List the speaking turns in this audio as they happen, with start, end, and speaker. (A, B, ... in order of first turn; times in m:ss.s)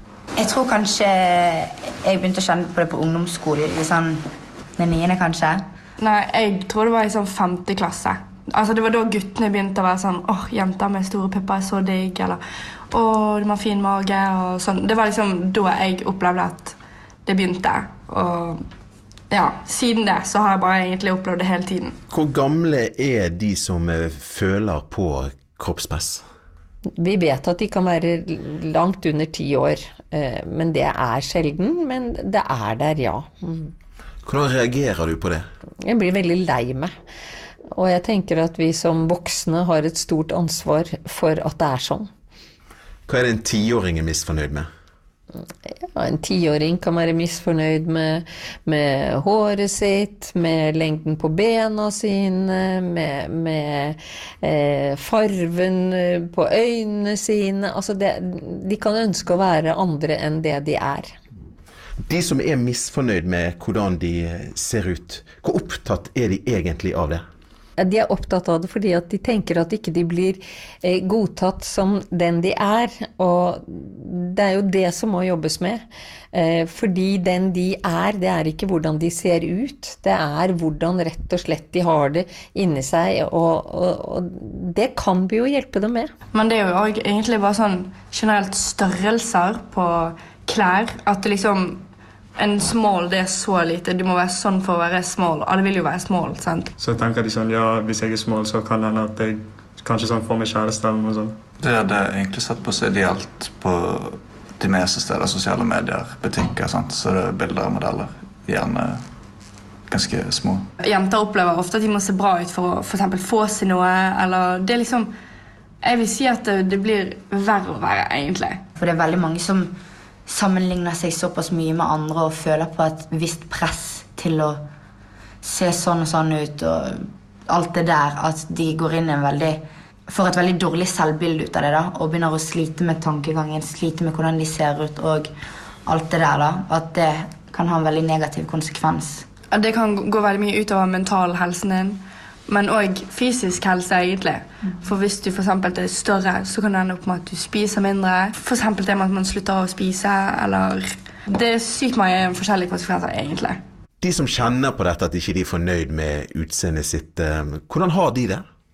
0:00.4-0:04.2 A
0:04.8-0:05.6 A
0:06.0-0:12.4 B
0:12.9-0:18.6 B
0:19.3-0:22.0 B
0:22.1-0:26.2 C
0:27.0-0:33.7 D
0:34.2-0:35.4 C
0:35.8-0:36.9 D
0:37.7-0:42.1 D
0:43.1-0:44.7 C
0:45.8-1:01.1 D
1:02.0-1:07.2 C
1:07.8-1:26.1 D
1:26.3-1:31.8 B
1:32.4-1:36.7 B
1:36.8-1:41.3 E
1:41.6-1:49.0 F
1:49.9-1:50.6 F
1:50.8-1:55.1 B
1:55.8-1:58.6 B
1:58.8-1:59.7 A
2:00.3-2:04.6 A
2:05.4-2:15.3 A
2:15.8-2:19.2 A
2:19.5-2:33.6 B
2:34.0-2:38.4 C